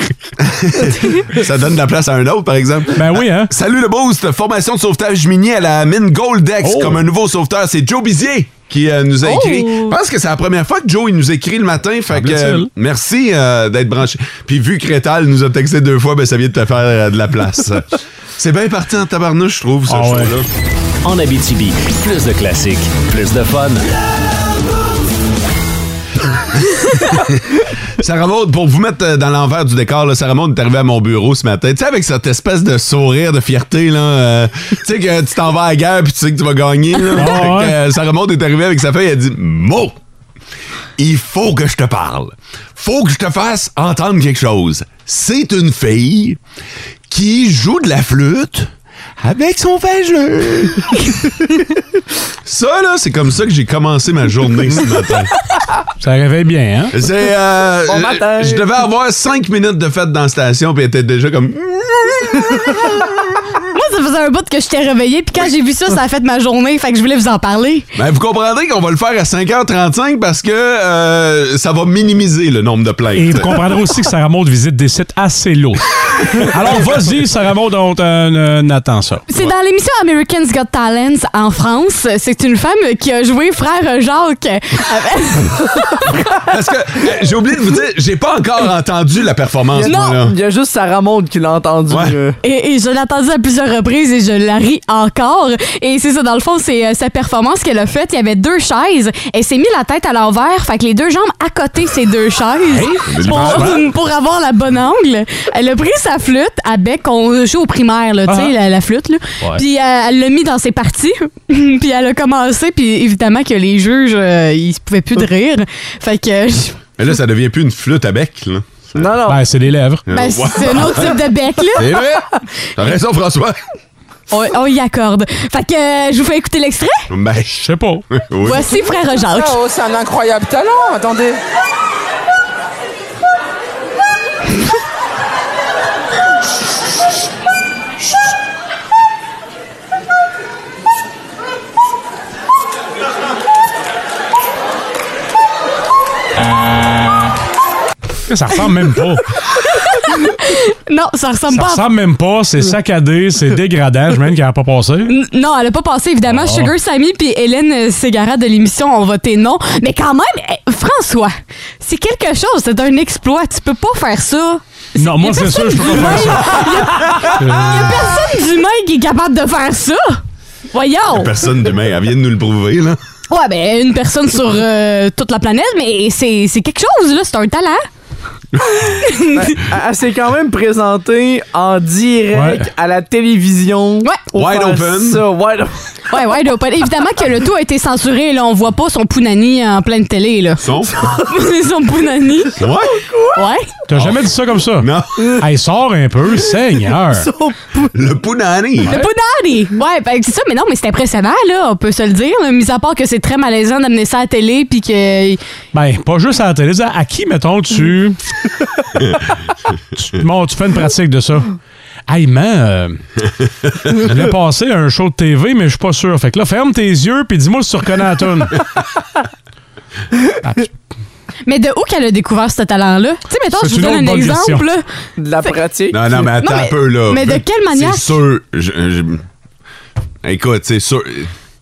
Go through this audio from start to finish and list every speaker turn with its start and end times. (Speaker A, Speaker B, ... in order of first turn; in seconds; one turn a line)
Speaker A: 0.4-20.5
Speaker B: 3.0-3.5
Speaker B: 6.6-7.0
Speaker C: 9.2-10.0
Speaker B: 12.2-12.7
Speaker B: 19.9-20.3
Speaker D: 21.0-23.9
Speaker A: 26.7-27.4
Speaker A: 28.0-40.0
Speaker B: 37.1-37.8
Speaker A: 41.0-46.4
Speaker A: 47.1-51.4
Speaker A: 52.5-55.3
Speaker B: 56.0-56.9
Speaker A: 56.9-63.3
Speaker E: 57.9-58.7
Speaker C: 63.7-67.9
Speaker A: 68.0-73.6
Speaker B: 73.1-79.2
Speaker C: 79.3-86.2
Speaker A: 86.4-90.3
Speaker E: 89.7-92.4
Speaker C: 89.8-90.2
Speaker A: 91.9-92.2
Speaker C: 92.4-116.8
Speaker B: 102.7-103.8
Speaker A: 103.1-103.9
Speaker B: 108.3-108.5
Speaker A: 117.0-119.1
Speaker E: 119.0-119.5
Speaker B: 119.3-120.0
Speaker A: 120.1-121.2
Speaker C: 120.1-122.0
Speaker A: 121.8-123.6
Speaker C: 124.3-127.1
Speaker A: 127.1-128.8
Speaker B: 127.6-128.0
Speaker C: 128.4-129.6
Speaker F: 129.3-131.4
Speaker B: 148.3-149.2
Speaker C: 149.6-151.8
Speaker B: 151.5-155.1
Speaker C: 155.1-170.2
Speaker B: 156.3-156.7
Speaker B: 165.0-167.8
Speaker C: 170.7-171.3
Speaker A: 171.1-173.0
Speaker C: 173.3-177.8
Speaker C: 178.7-179.6
Speaker E: 179.3-185.8
Speaker B: 182.3-182.7
Speaker A: 184.3-185.2
Speaker C: 186.1-190.6
Speaker A: 190.6-191.0
Speaker C: 191.2-192.6
Speaker A: 192.6-193.0
Speaker C: 193.3-193.7
Speaker B: 193.9-197.3
Speaker A: 193.9-194.2
Speaker A: 194.8-195.1
Speaker E: 197.1-197.9
Speaker A: 197.9-198.9
Speaker C: 198.8-205.4
Speaker B: 205.7-208.2
Speaker B: 210.0-211.5
Speaker B: 212.1-213.0
Speaker B: 213.9-218.6
Speaker C: 221.5-224.8
Speaker B: 223.5-224.7
Speaker E: 225.2-226.2
Speaker A: 225.9-229.2
Speaker C: 226.4-228.1
Speaker A: 230.2-231.3